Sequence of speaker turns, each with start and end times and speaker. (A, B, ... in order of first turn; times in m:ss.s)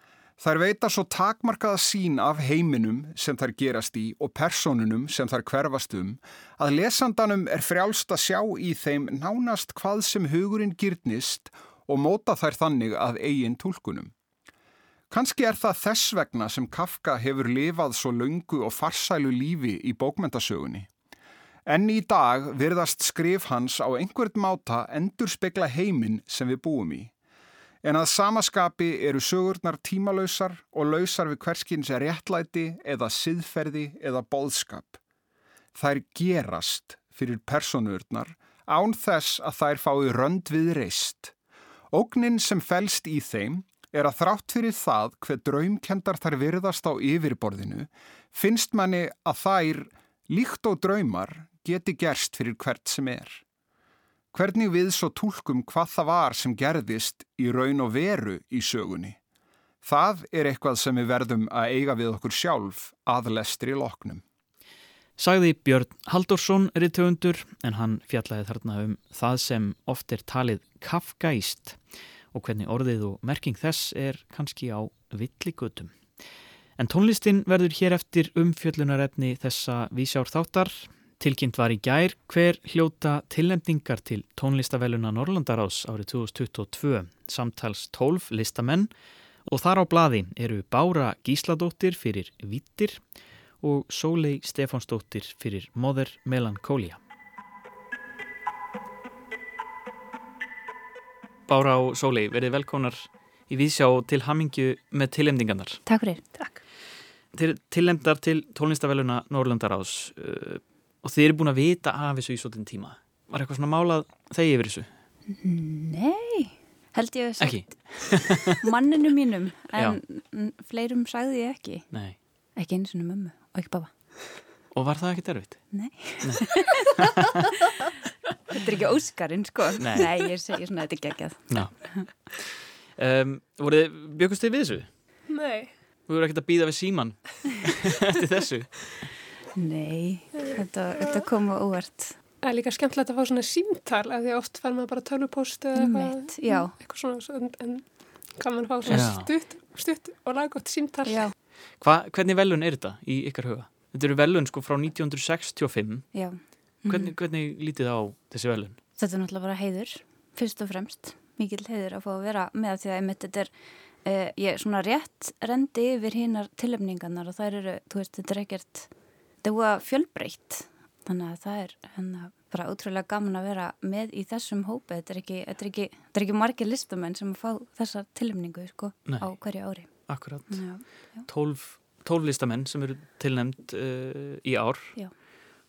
0:00.4-0:14.1 A
0:15.1-0:20.9 A
0:21.7-0:27.1 A
0:27.8-0:35.0 A
0:35.8-0:41.3 A
0:41.9-0:53.4 A
0:54.3-0:59.2 A
0:59.8-1:04.2 A
1:05.2-1:11.8 B
1:12.3-1:16.0 B
1:16.8-1:28.9 B
1:29.4-1:33.0 B
1:33.6-1:37.0 B
1:41.5-1:45.8 B
1:45.9-1:46.4 C
1:47.3-1:54.9 B
1:55.4-2:01.9 C
1:57.4-1:58.6 B
2:01.9-2:02.2 B
2:02.6-2:03.9 C
2:04.7-2:07.2 B
2:05.7-2:06.9 C
2:08.5-2:12.1 C
2:09.8-2:10.1 B
2:11.5-2:14.9 B
2:15.3-2:15.7 D
2:16.1-2:19.1 B
2:19.6-2:22.2 C
2:22.4-2:31.3 D
2:25.8-2:26.7 C
2:28.9-2:29.3 B
2:31.1-2:31.3 C
2:31.8-2:36.1 B
2:36.1-2:37.1 C
2:36.9-2:38.8 B
2:39.0-2:43.5 C
2:44.0-2:48.9 C
2:49.4-3:01.3 C
3:00.1-3:00.6 B
3:01.3-3:05.0 B